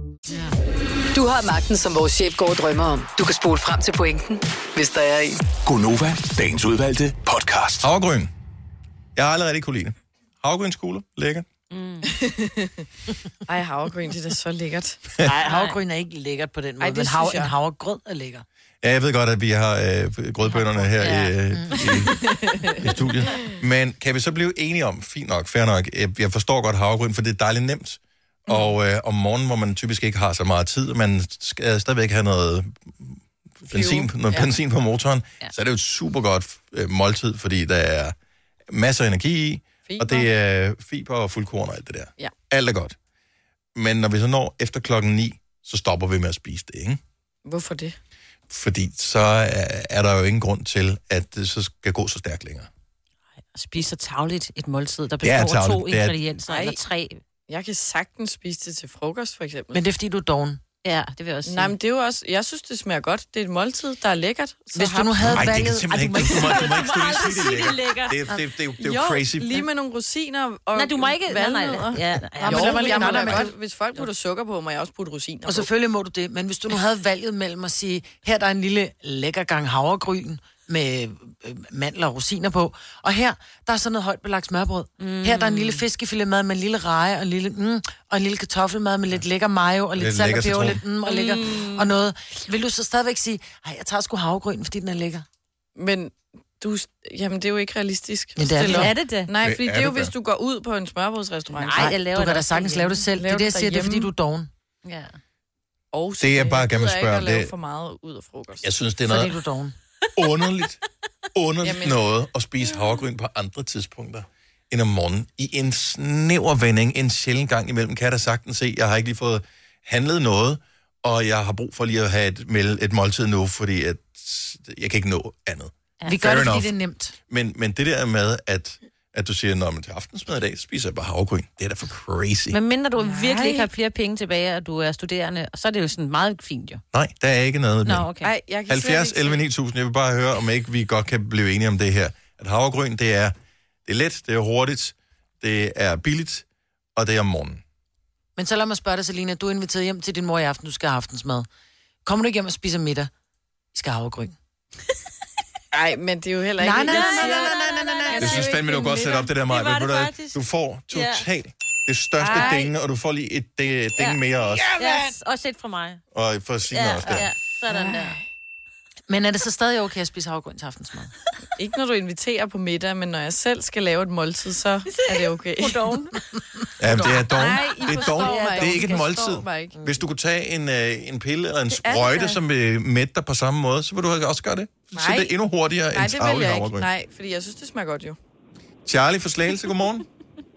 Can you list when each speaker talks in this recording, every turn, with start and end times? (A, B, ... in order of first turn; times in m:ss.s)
0:01.1-0:05.4 A
0:05.6-0:07.9 B
0:07.8-0:08.3 C
0:09.2-0:11.5 C
0:11.7-0:12.1 D
0:12.0-0:12.9 E
0:13.5-0:15.0 E
0:15.2-0:18.4 F
0:15.4-0:15.8 D
0:16.8-0:17.6 E
0:18.8-0:22.2 C
0:20.5-0:21.9 D
0:21.5-0:22.0 F
0:22.2-0:22.8 E
0:22.8-0:38.2 C
0:33.7-0:34.5 E
0:38.7-0:43.0 C
0:39.9-0:40.3 E
0:43.8-0:47.0 C
0:47.5-0:48.0 E
0:48.5-0:52.7 C
0:53.5-0:57.2 D
0:55.2-0:56.2 C
0:56.5-0:56.8 E
0:57.5-0:59.8 E
0:59.7-1:00.6 F
1:00.8-1:01.8 D
1:01.5-1:05.4 E
1:04.8-1:06.6 F
1:05.2-1:09.7 C
1:05.9-1:08.4 D
1:08.8-1:15.7 E
1:10.8-1:13.5 D
1:12.4-1:13.5 F
1:15.5-1:35.2 F
1:25.0-1:25.8 D
1:30.0-1:30.8 C
1:31.0-1:31.9 D
1:35.8-1:41.9 E
1:38.4-1:39.0 F
1:38.6-1:39.3 D
1:39.4-1:40.1 C
1:41.5-1:43.0 D
1:41.7-1:44.5 F
1:43.1-1:44.1 E
1:44.8-1:45.2 D
1:45.9-1:48.7 E
1:46.2-1:47.5 C
1:48.6-1:49.4 C
1:49.1-1:49.8 F
1:50.2-1:50.8 C
1:51.4-2:06.7 C
1:51.6-1:52.0 E
2:06.0-2:06.3 D
2:06.1-2:07.2 F
2:07.3-2:12.6 C
2:12.5-2:16.8 D
2:13.0-2:13.7 E
2:16.9-2:18.1 C
2:17.8-2:18.3 D
2:18.2-2:19.4 E
2:18.7-2:23.4 C
2:23.9-2:26.4 C
2:27.0-2:27.6 C
2:28.4-2:31.5 F
2:32.0-2:33.1 F
2:33.7-2:34.4 F
2:35.7-2:39.2 E
2:36.6-2:38.5 F
2:36.7-2:40.4 D
2:38.2-2:44.7 C
2:40.9-2:41.3 D
2:42.2-2:42.6 E
2:42.2-2:42.7 D
2:44.5-2:45.1 F
2:44.8-2:46.0 D
2:46.1-2:47.3 C
2:46.7-2:48.2 D
2:47.7-2:48.2 F
2:49.1-2:51.1 F
2:51.6-2:56.0 E
2:54.9-2:56.2 D
2:56.8-3:06.9 C
2:57.3-2:59.8 E
2:57.9-2:58.8 D
2:58.1-2:59.0 F
3:01.7-3:02.4 E
3:04.9-3:05.3 E
3:05.9-3:08.2 E
3:08.8-3:10.0 C